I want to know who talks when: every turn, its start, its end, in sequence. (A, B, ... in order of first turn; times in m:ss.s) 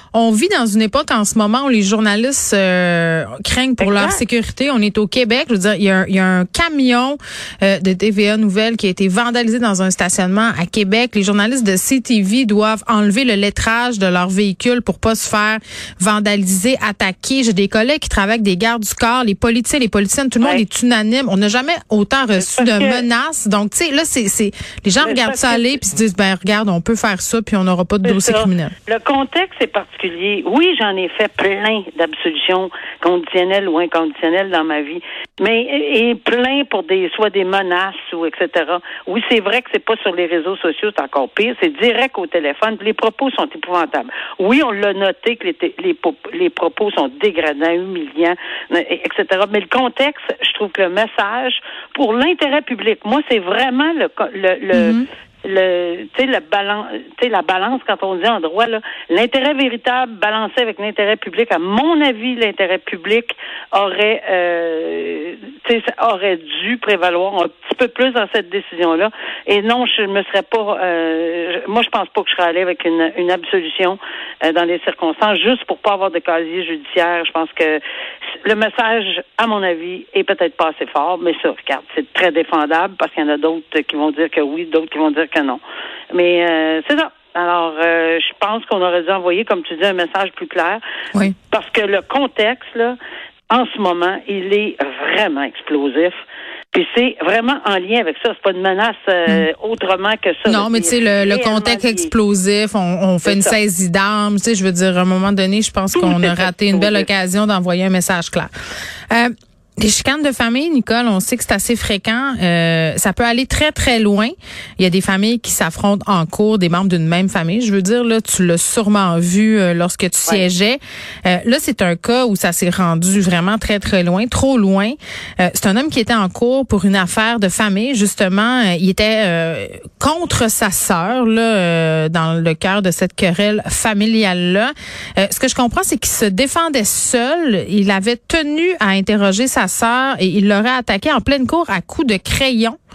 0:00.1-0:28.7 A
0:03.8-0:04.2 B
0:22.4-0:23.0 B
0:25.0-0:25.8 B
0:28.0-1:17.8 B
0:54.7-0:55.0 A
1:18.4-1:25.6 B
1:26.1-1:33.0 B
1:33.5-1:36.2 B
1:36.7-1:42.1 B
1:40.4-1:48.5 A
1:43.2-1:43.6 B
1:45.9-1:47.1 B
1:49.1-2:22.8 A